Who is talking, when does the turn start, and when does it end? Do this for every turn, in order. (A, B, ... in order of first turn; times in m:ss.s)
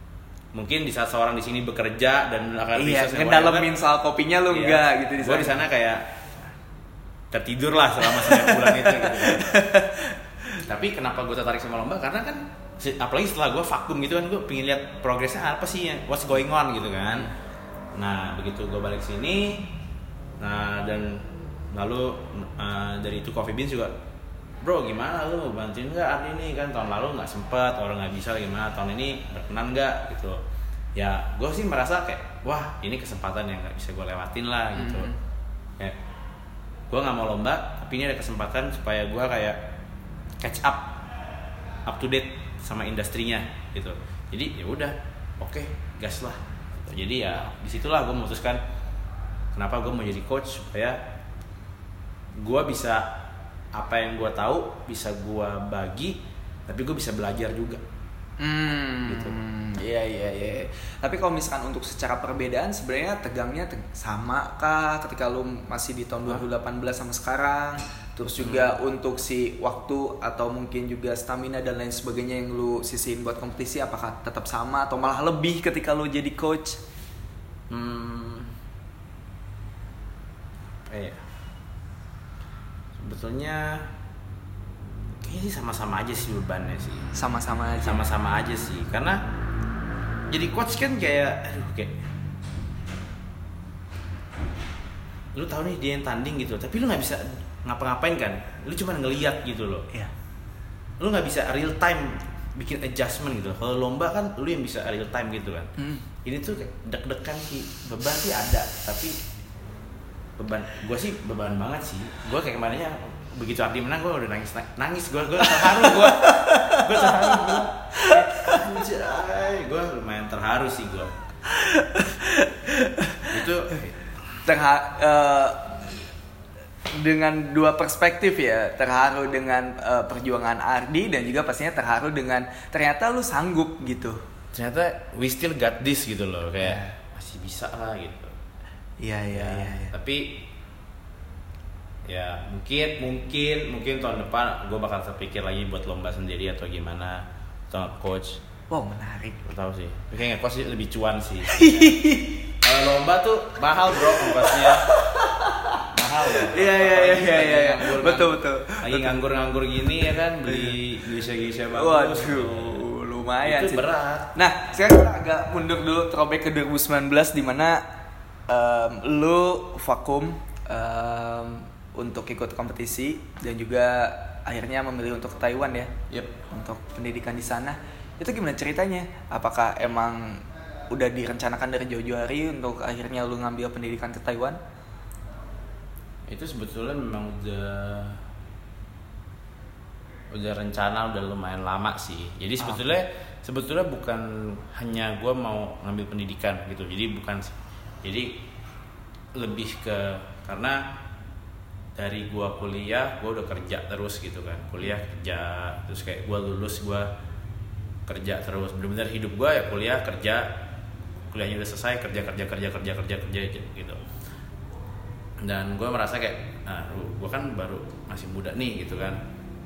0:00.5-0:03.7 A
0:02.8-0:05.6 B
0:04.5-0:06.0 A
0:07.3-0:09.5 A
0:08.0-0:10.6 B
0:10.6-0:17.3 A
0:18.0-0:19.7 A
0:20.4-0:23.9 A
0:24.6-0:30.4 A
0:31.0-0:35.1 A
0:34.8-0:35.2 B
0:36.9-0:39.7 A
0:40.4-0:41.0 A
0:41.9-0:48.6 A
0:49.5-0:51.0 A
0:52.4-0:53.2 A
0:53.7-0:57.8 A
0:58.4-1:16.8 B
0:59.0-0:59.4 A
1:08.4-1:08.8 A
1:17.7-1:18.6 A
1:20.9-1:21.2 A
1:23.0-1:23.9 A
1:25.2-1:27.1 A
1:27.1-1:28.1 B
1:27.8-1:29.2 A
1:30.3-1:32.0 A
1:35.3-1:39.9 A
1:41.0-1:45.7 A
1:45.8-1:46.0 B
1:46.2-1:49.2 A
1:50.4-2:01.1 A
1:55.4-1:58.7 B
2:01.5-2:03.4 B
2:03.2-2:04.1 A
2:04.4-2:05.7 B
2:06.9-2:14.2 B
2:14.5-2:18.3 A
2:16.6-2:17.0 B
2:19.0-2:19.9 B
2:19.3-2:20.4 A
2:22.1-2:28.4 A
2:28.7-2:29.4 B
2:29.4-2:32.0 A
2:31.5-2:32.6 B
2:32.6-2:34.9 A
2:34.0-2:39.2 B
2:35.8-2:42.8 A
2:40.5-2:40.8 B
2:41.7-2:47.8 B
2:43.4-2:44.4 A
2:48.5-2:55.9 B
2:56.1-2:56.4 A
2:56.5-3:04.6 B
3:06.3-3:08.2 A
3:10.3-3:18.4 A
3:19.4-3:20.8 A
3:22.0-3:27.1 A
3:28.1-3:30.6 A
3:31.3-3:34.0 A
3:35.4-3:39.3 A